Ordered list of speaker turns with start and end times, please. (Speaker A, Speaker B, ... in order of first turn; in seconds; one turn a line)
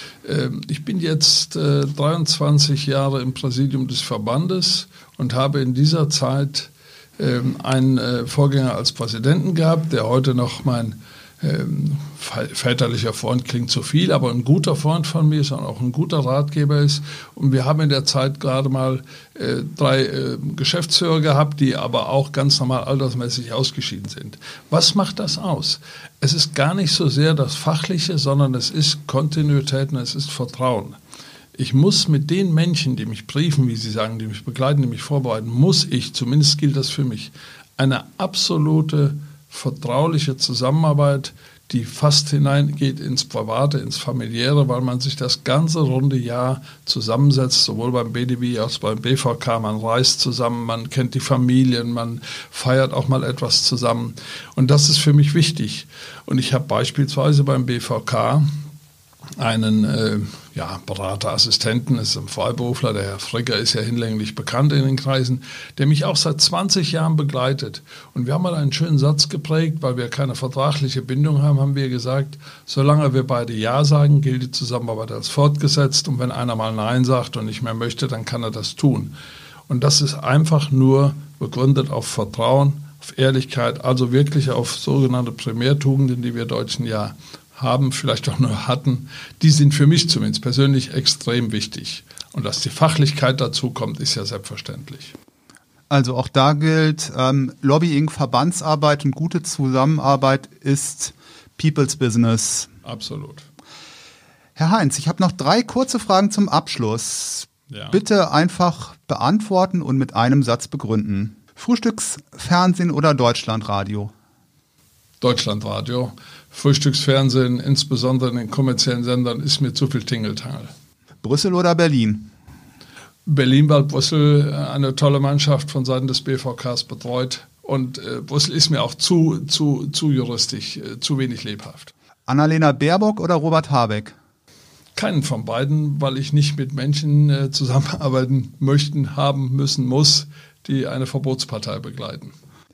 Speaker A: 0.2-31.0
Speaker A: 31.6-58.5
Speaker A: 59.4-79.2
Speaker A: 79.7-95.2
Speaker B: 95.9-102.7
Speaker A: 102.8-103.5
Speaker B: 104.6-114.1
Speaker A: 107.7-108.0
Speaker A: 115.2-120.7
Speaker B: 121.2-122.3
Speaker A: 123.3-131.9
Speaker B: 132.3-134.2
Speaker A: 134.9-142.3